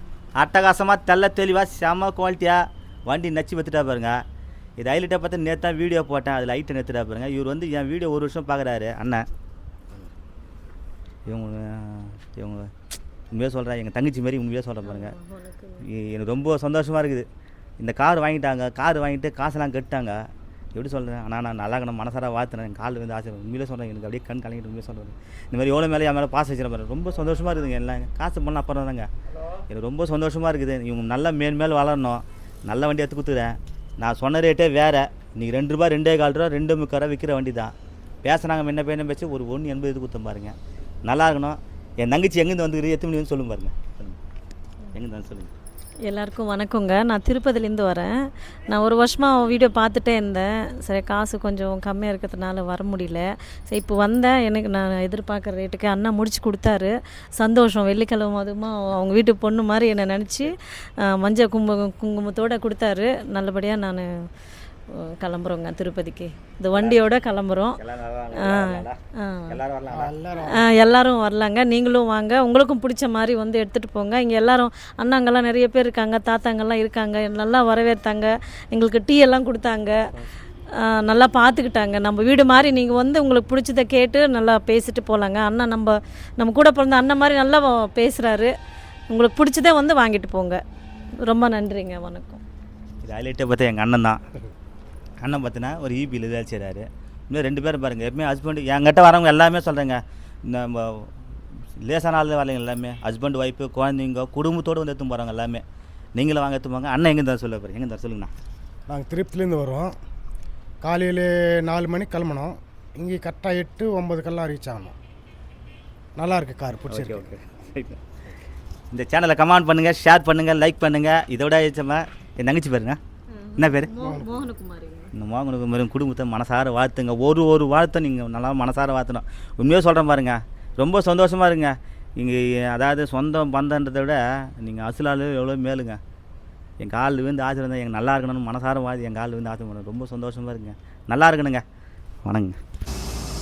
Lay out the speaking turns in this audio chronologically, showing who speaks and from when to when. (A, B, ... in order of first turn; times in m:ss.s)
0:00.4-0:04.2 A
0:04.8-0:09.2 A
0:11.2-0:12.7 A
0:13.3-0:15.1 A
0:14.8-0:15.8 B
0:15.8-0:17.3 A
0:17.8-0:29.1 A
0:29.7-0:40.5 A
0:41.0-0:44.2 A
0:44.9-0:45.5 A
0:46.1-0:48.1 B
0:48.7-1:04.1 B
1:04.9-1:07.8 B
1:06.7-1:07.1 A
1:07.8-1:10.1 A
1:08.3-1:09.6 B
1:09.9-1:10.7 C
1:10.4-1:20.0 B
1:20.8-1:28.5 B
1:29.1-1:30.6 B
1:31.3-1:32.4 B
1:33.0-1:34.2 A
1:35.2-1:41.1 A
1:41.8-1:45.6 A
1:46.2-1:48.3 A
1:48.9-1:49.9 C
1:50.8-1:54.9 C
1:56.2-1:57.2 C
1:56.9-1:58.1 A
1:58.9-2:03.0 A
2:03.3-2:05.1 B
2:03.6-2:03.9 A
2:04.0-2:04.4 C
2:05.1-2:16.0 A
2:16.8-2:21.6 A
2:22.2-2:22.6 A